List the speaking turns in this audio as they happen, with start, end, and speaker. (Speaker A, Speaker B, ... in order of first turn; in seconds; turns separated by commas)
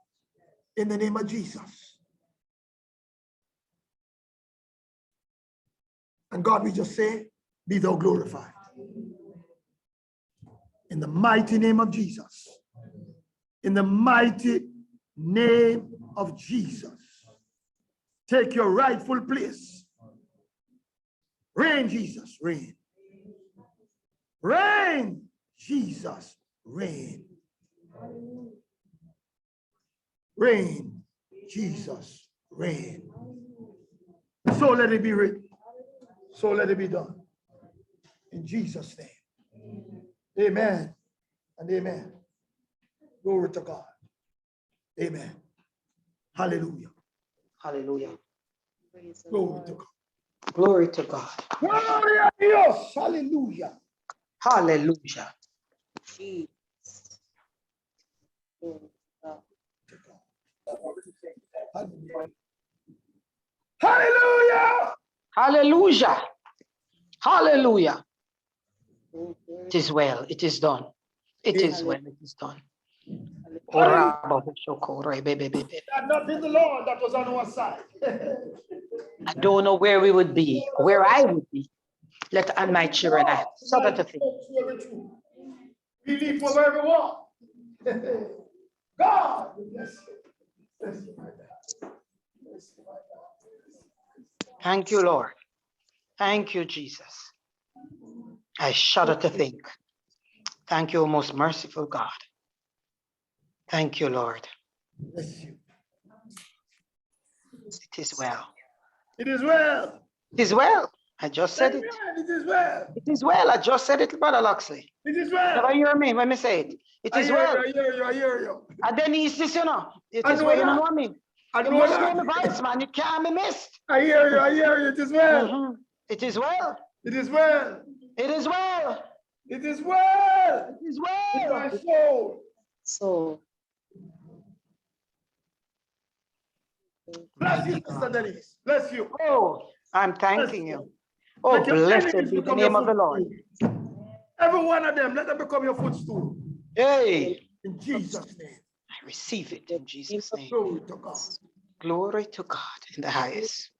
Speaker A: 0.7-2.0, Speaker A: 6.3-8.5, Speaker A: 10.9-12.6, Speaker A: 13.6-17.1, Speaker A: 18.3-19.9, Speaker A: 21.5-22.8, Speaker A: 24.4-27.2, Speaker A: 30.4-33.1, Speaker A: 34.5-35.5, Speaker A: 36.3-37.2, Speaker A: 38.3-39.2, Speaker A: 40.3-40.9, Speaker A: 41.6-42.1, Speaker A: 43.2-43.9, Speaker A: 45.0-45.4, Speaker A: 46.3-46.9, Speaker B: 47.6-48.2, Speaker C: 48.9-49.8, Speaker A: 49.3-49.9, Speaker B: 50.5-51.4, Speaker A: 51.6-53.7, Speaker B: 54.4-55.3, Speaker C: 56.1-57.1, Speaker C: 58.6-59.4, Speaker A: 59.9-60.2, Speaker A: 61.7-62.3, Speaker A: 63.8-64.9, Speaker B: 65.3-66.2, Speaker B: 67.2-68.0, Speaker C: 69.1-69.8, Speaker B: 69.7-70.9, Speaker B: 71.4-72.6, Speaker C: 71.5-72.0, Speaker C: 73.4-73.9, Speaker B: 73.7-75.8, Speaker A: 73.7-74.2, Speaker A: 75.8-78.5, Speaker B: 79.2-81.7, Speaker A: 80.5-81.2, Speaker B: 82.3-84.2, Speaker A: 82.6-85.1, Speaker A: 86.0-87.3, Speaker A: 87.8-88.3, Speaker A: 89.0-90.0, Speaker A: 90.8-91.5, Speaker A: 92.5-93.2, Speaker B: 94.6-95.3, Speaker B: 96.2-97.3, Speaker B: 98.6-99.6, Speaker B: 100.7-102.1, Speaker B: 103.7-104.5, Speaker A: 105.1-105.6, Speaker B: 107.8-108.5, Speaker A: 109.2-110.0, Speaker B: 110.3-111.9, Speaker A: 111.5-112.9, Speaker B: 113.0-114.9, Speaker A: 115.0-115.8, Speaker B: 115.5-117.6, Speaker A: 117.1-118.7, Speaker B: 118.8-123.7, Speaker A: 120.2-120.8, Speaker A: 121.5-122.5, Speaker A: 123.9-125.5, Speaker B: 125.3-126.8, Speaker A: 127.0-127.8, Speaker B: 128.2-129.0, Speaker A: 129.5-130.8, Speaker B: 130.8-131.7, Speaker A: 131.3-132.4, Speaker C: 132.8-133.4, Speaker C: 137.1-137.4, Speaker A: 137.4-139.1, Speaker B: 137.5-138.1, Speaker B: 139.1-140.8, Speaker A: 140.3-140.9, Speaker B: 141.4-143.2, Speaker A: 141.5-143.4, Speaker A: 144.4-146.3, Speaker B: 146.7-147.4, Speaker A: 147.6-148.6, Speaker B: 149.0-150.5, Speaker C: 149.6-150.5, Speaker A: 150.5-151.3, Speaker B: 151.8-153.7